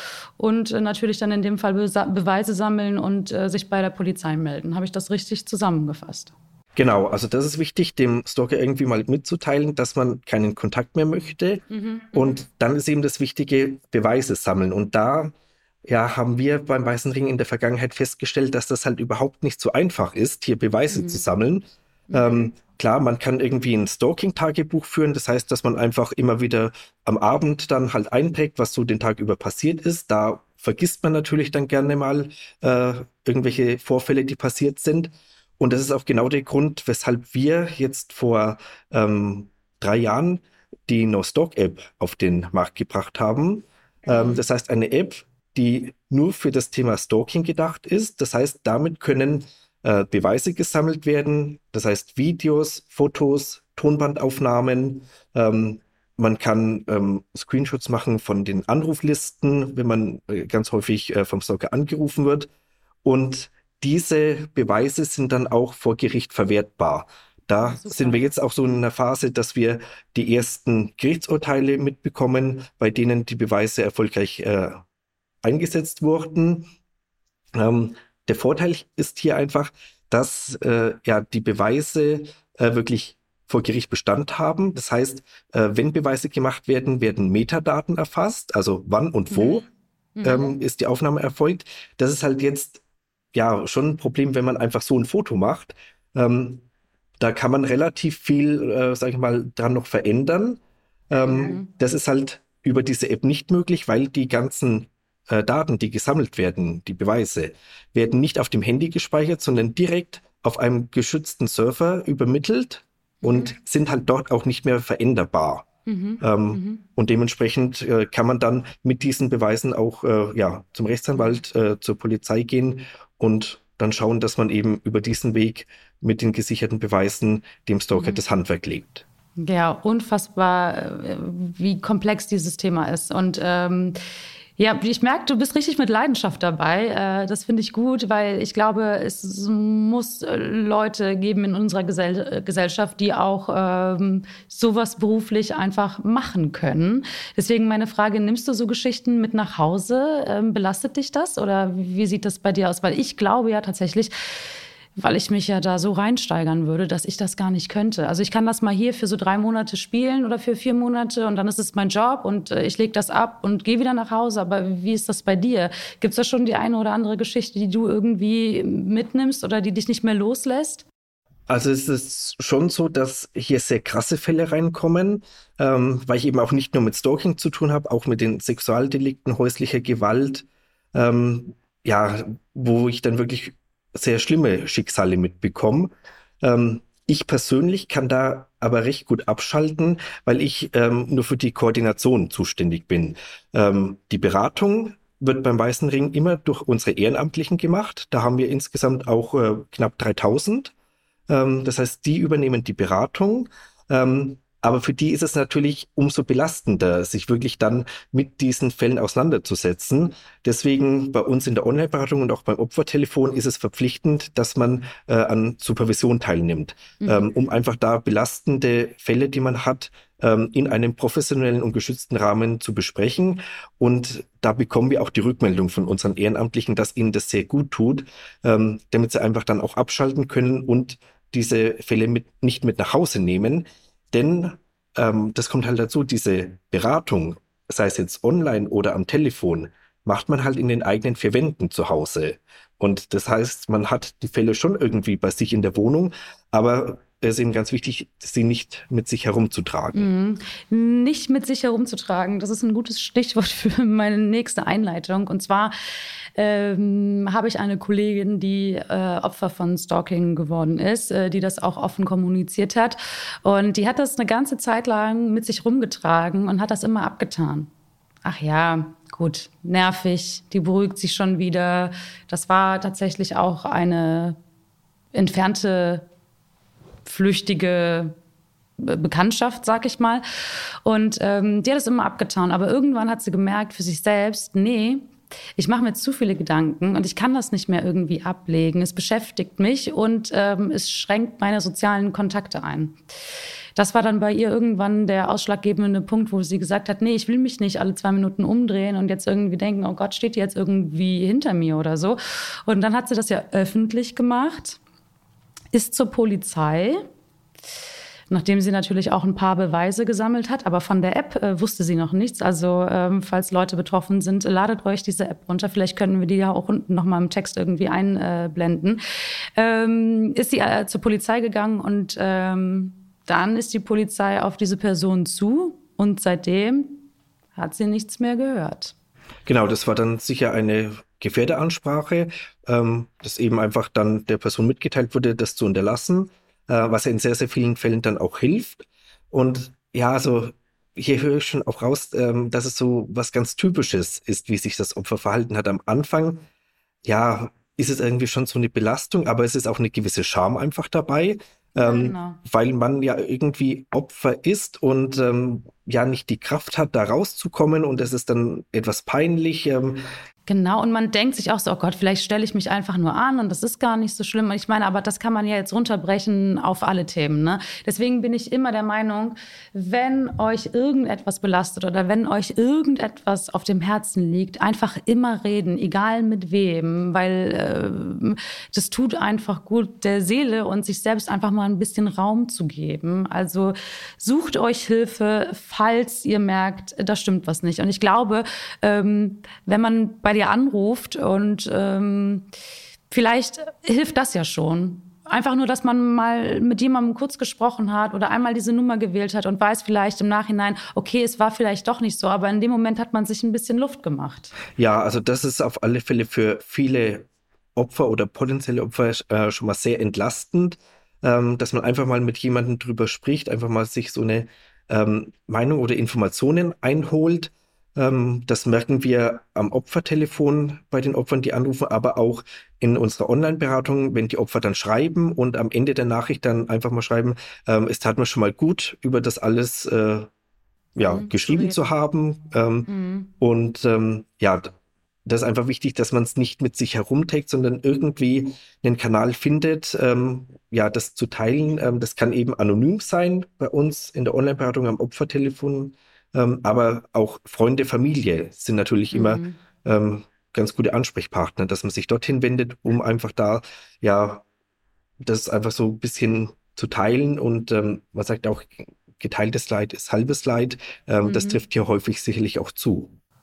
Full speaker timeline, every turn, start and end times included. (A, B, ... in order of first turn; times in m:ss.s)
0:00.4-0:06.3 A
0:06.8-0:15.3 B
0:11.7-0:12.4 A
0:15.8-1:02.5 B
0:20.9-0:21.2 A
0:44.1-0:44.4 A
1:03.0-1:14.8 B
1:07.6-1:08.3 A
1:15.4-1:16.7 B
1:17.5-1:29.6 B
1:29.3-1:29.6 A
1:30.2-1:30.5 A
1:30.2-1:32.8 B
1:33.3-1:36.6 B
1:37.2-1:40.6 B
1:41.1-1:55.7 B
1:41.2-1:41.7 A
1:53.2-1:53.5 A
1:55.8-1:56.8 A
1:56.2-2:09.0 B
2:07.9-2:08.2 A
2:09.4-2:14.0 A
2:14.6-2:50.8 A
2:51.5-3:20.7 B
3:21.3-4:10.1 B
3:37.0-3:37.3 A
4:09.9-4:15.8 A
4:16.4-4:27.7 A
4:28.2-4:34.4 A
4:35.1-4:36.0 A
4:37.0-4:38.1 A
4:38.8-4:40.2 A
4:40.8-4:53.0 A
4:53.8-5:04.8 A
5:05.7-5:07.0 A
5:08.3-5:19.0 A
5:19.6-5:28.9 A
5:29.4-5:46.4 B
5:47.0-6:00.0 B
5:51.8-5:52.4 A
6:00.5-6:32.4 A
6:33.1-6:44.5 A
6:44.8-7:10.3 B
7:11.0-7:12.9 B
7:11.0-7:11.8 A
7:12.8-7:13.3 A
7:13.4-7:14.7 B
7:15.2-7:34.4 B
7:29.1-7:29.6 A
7:35.2-7:43.2 B
7:41.2-7:41.6 A